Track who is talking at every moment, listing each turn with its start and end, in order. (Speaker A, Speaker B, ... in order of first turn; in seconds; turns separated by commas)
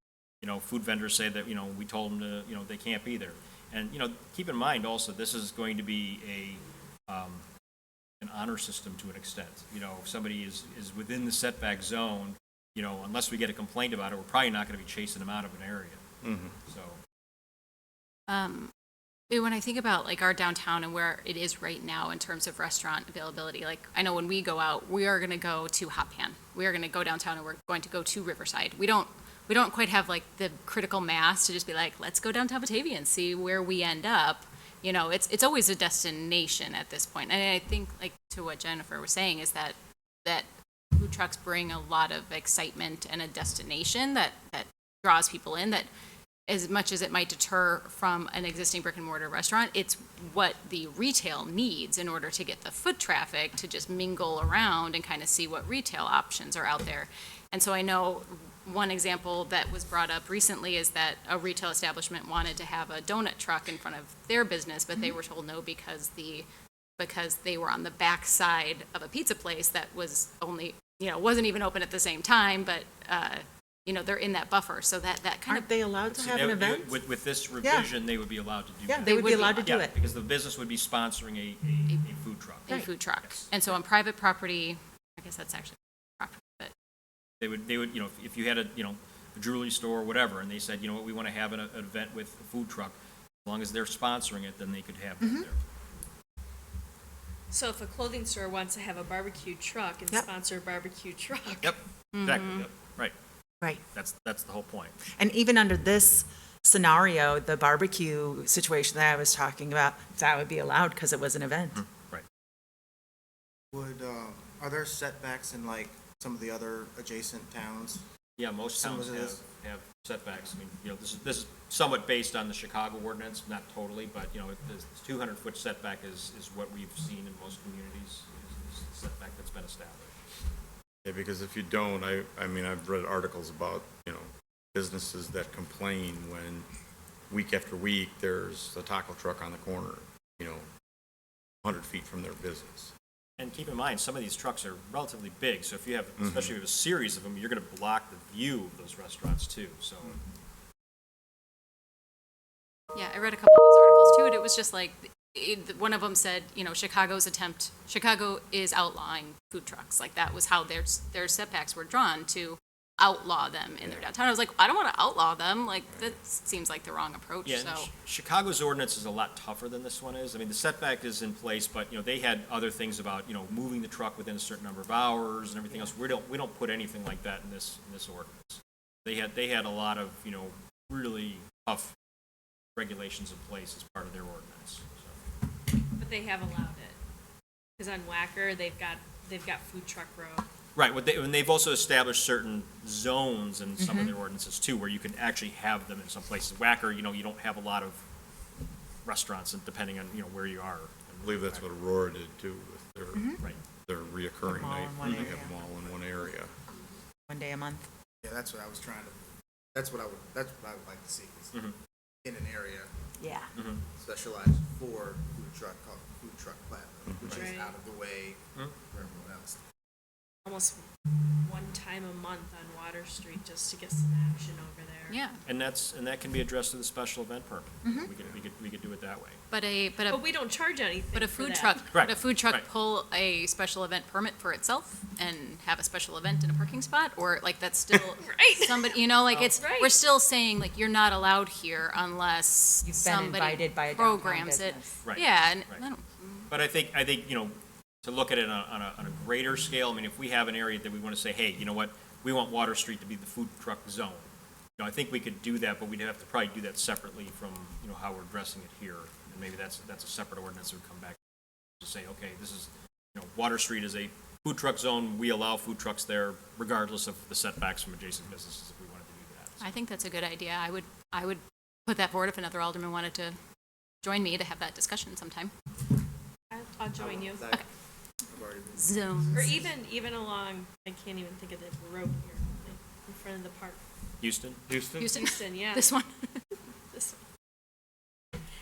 Speaker A: 0.4-7.4, Speaker A: 8.2-16.0, Speaker B: 16.2-16.6, Speaker A: 16.6-17.0, Speaker C: 18.3-18.7, Speaker C: 19.3-45.9, Speaker C: 46.5-66.5, Speaker C: 67.0-75.7, Speaker D: 75.5-77.0, Speaker A: 76.1-83.8, Speaker D: 77.6-77.9, Speaker D: 78.8-79.9, Speaker C: 79.0-79.8, Speaker C: 82.7-86.7, Speaker A: 87.4-95.6, Speaker D: 95.2-95.5, Speaker E: 97.5-101.7, Speaker A: 101.6-103.1, Speaker C: 102.1-102.7, Speaker A: 103.8-105.0, Speaker D: 105.1-111.8, Speaker A: 111.7-112.2, Speaker F: 113.7-118.0, Speaker A: 118.4-130.2, Speaker F: 118.8-119.4, Speaker B: 131.0-136.7, Speaker B: 137.3-140.7, Speaker B: 141.6-142.9, Speaker A: 143.4-150.2, Speaker B: 146.2-146.6, Speaker C: 152.9-167.9, Speaker A: 167.4-181.9, Speaker A: 182.8-185.2, Speaker E: 185.9-187.0, Speaker E: 187.8-190.5, Speaker A: 190.8-198.0, Speaker D: 193.8-194.1, Speaker A: 199.0-201.7, Speaker B: 201.2-206.5, Speaker D: 203.1-203.4, Speaker D: 204.4-205.6, Speaker A: 205.0-205.3, Speaker D: 207.3-207.9, Speaker F: 208.2-209.2, Speaker F: 209.7-211.5, Speaker F: 212.2-212.9, Speaker D: 213.2-213.5, Speaker A: 213.5-213.8, Speaker F: 214.0-219.6, Speaker E: 217.3-217.7, Speaker E: 220.4-225.2, Speaker C: 225.1-225.4, Speaker A: 225.5-229.4, Speaker D: 227.8-228.1, Speaker C: 229.5-230.4, Speaker E: 230.1-231.7, Speaker C: 231.1-246.5, Speaker A: 231.9-232.7, Speaker E: 238.2-238.9, Speaker E: 239.6-239.9, Speaker D: 242.8-245.0, Speaker A: 245.0-245.9, Speaker A: 246.5-261.2, Speaker A: 261.8-269.7, Speaker C: 269.6-273.4, Speaker C: 274.0-275.5, Speaker E: 276.5-277.4, Speaker F: 277.0-277.7, Speaker F: 278.3-279.3, Speaker C: 278.7-279.7, Speaker E: 279.3-283.8, Speaker A: 284.2-284.6, Speaker B: 284.7-285.1, Speaker C: 285.0-286.4, Speaker E: 285.1-285.9, Speaker E: 286.9-287.2